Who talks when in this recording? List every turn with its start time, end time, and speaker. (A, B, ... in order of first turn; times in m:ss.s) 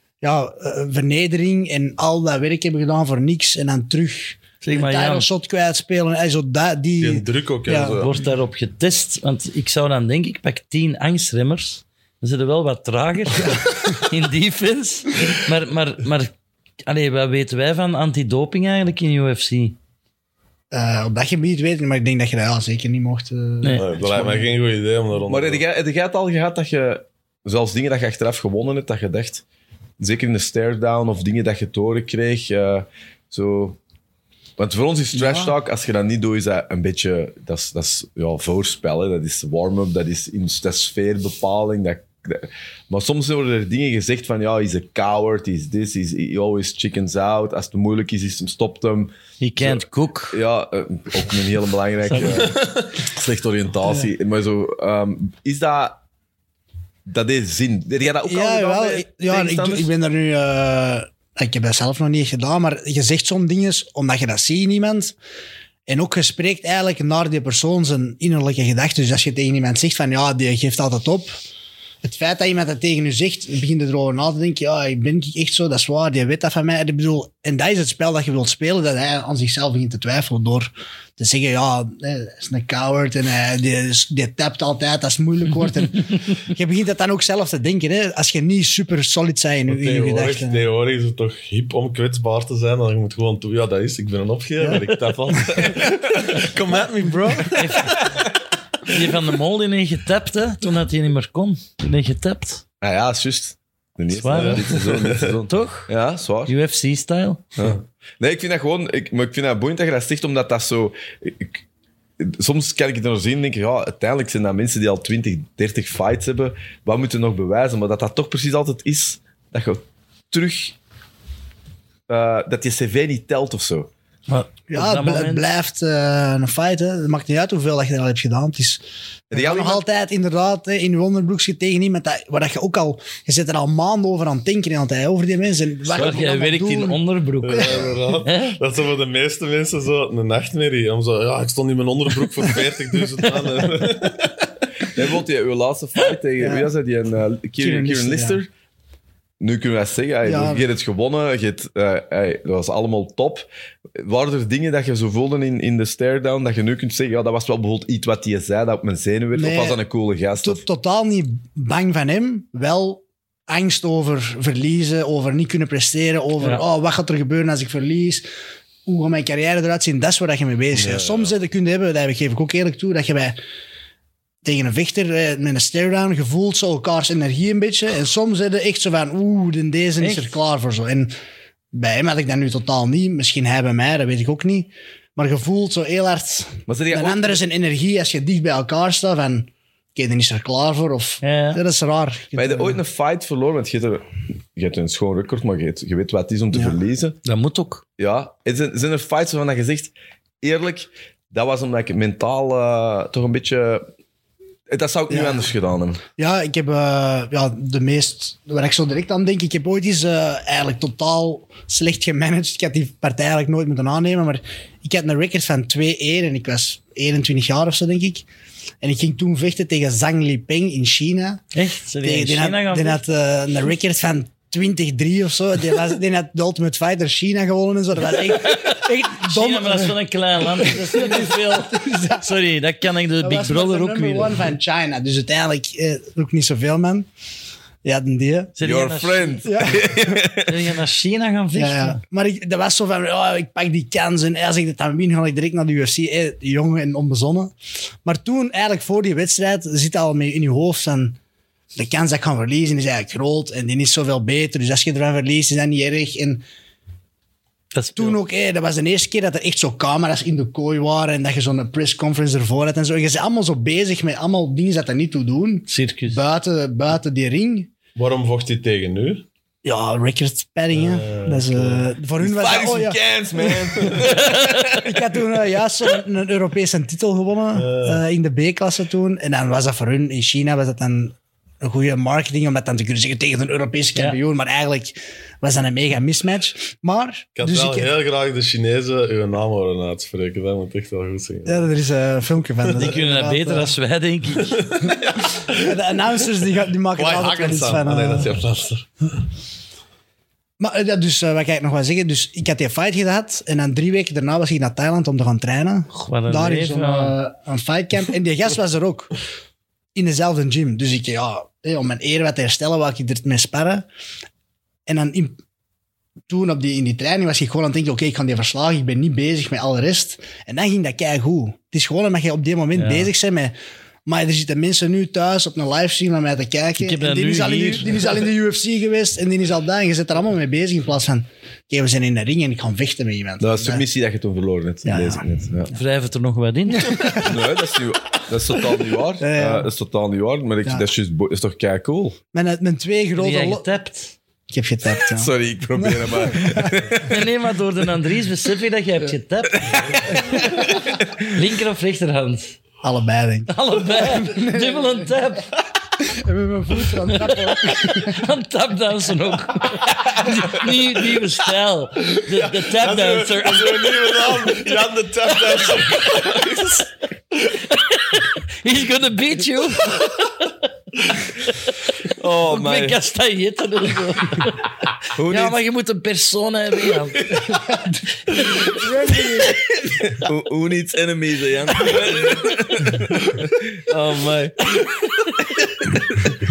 0:00.2-0:08.0 A
0:04.6-0:05.3 B
0:07.0-0:08.2 C
0:07.9-0:16.3 B
0:16.9-0:19.8 B
0:20.7-0:24.5 A
0:23.8-0:25.6 C
0:25.3-0:29.4 D
0:30.0-0:33.8 D
0:34.6-0:56.0 D
0:35.2-0:35.5 A
0:49.4-0:50.4 B
0:52.1-0:52.4 B
0:52.3-0:52.9 C
0:57.1-0:59.9 D
0:58.2-1:05.2 A
1:05.9-1:11.3 A
1:12.0-1:30.6 A
1:29.7-1:38.1 C
1:35.6-1:35.9 D
1:37.0-1:37.5 A
1:37.5-1:38.0 B
1:38.8-1:42.6 B
1:42.8-1:46.5 D
1:44.1-1:44.8 B
1:44.3-1:45.4 C
1:45.5-1:45.9 B
1:46.5-1:47.5 B
1:47.6-1:51.6 D
1:52.2-2:00.8 D
2:02.1-2:03.9 D
2:04.3-2:05.5 B
2:04.7-2:17.0 A
2:09.3-2:09.8 D
2:15.9-2:18.6 B
2:17.4-2:24.8 C
2:17.5-2:17.9 A
2:24.9-2:28.5 D
2:26.4-2:26.7 A
2:27.6-2:28.4 A
2:29.4-2:40.6 D
2:30.2-2:30.6 A
2:39.4-2:39.8 A
2:40.4-2:48.2 A
2:48.8-2:53.4 A
2:50.7-2:51.4 C
2:54.4-3:01.1 A
3:00.0-3:00.4 B
3:01.7-3:12.8 A
3:06.7-3:07.4 D
3:11.2-3:11.6 B
3:12.4-3:17.2 D
3:17.2-3:17.8 B
3:18.0-3:23.8 D
3:24.7-3:26.0 D
3:25.1-3:25.5 A
3:26.2-3:38.3 A
3:38.8-3:41.4 A
3:41.5-3:43.0 B
3:42.0-3:52.3 A
3:48.1-3:54.5 B
3:53.2-3:57.1 A
3:57.8-3:58.5 A
3:58.6-3:59.5 B
3:58.6-4:00.6 D
3:59.4-4:00.2 A
4:00.4-4:02.0 B
4:01.5-4:11.2 A
4:11.8-4:16.4 A
4:17.7-4:18.2 B
4:18.0-4:27.7 A
4:25.7-4:26.2 B
4:28.0-4:29.3 C
4:29.6-4:47.9 A
4:30.7-4:31.9 C
4:32.2-4:35.3 D
4:34.2-4:34.6 B
4:37.5-4:38.0 C
4:47.4-4:51.7 C
4:51.5-4:53.7 A
4:52.7-4:54.7 B
4:54.4-4:55.8 C
4:55.5-4:58.4 A
4:56.9-4:59.1 C
5:00.6-5:09.1 A
5:05.9-5:07.2 B
5:10.0-5:13.9 A
5:14.9-5:15.4 A
5:16.3-5:23.5 A
5:22.8-5:23.1 B
5:24.1-5:33.8 A
5:26.8-5:28.0 B
5:33.4-5:35.7 D
5:34.9-5:35.2 A
5:35.7-5:37.2 B
5:36.7-5:37.4 A
5:37.2-5:42.2 D
5:39.2-5:39.7 A
5:42.3-5:43.7 A
5:43.2-5:44.2 B
5:44.5-5:46.8 A
5:45.1-5:47.3 D
5:47.0-5:50.8 B
5:49.5-5:51.3 D
5:50.0-5:50.7 A
5:51.3-5:52.6 B
5:52.8-5:55.2 A
5:53.5-5:55.5 B
5:56.1-5:58.3 A
5:57.1-6:04.7 B
6:02.1-6:07.6 C
6:05.4-6:06.7 B
6:07.5-6:10.6 B
6:11.2-6:17.6 B
6:12.1-6:13.0 D
6:15.2-6:15.6 D
6:17.4-6:19.6 A
6:19.5-6:24.8 D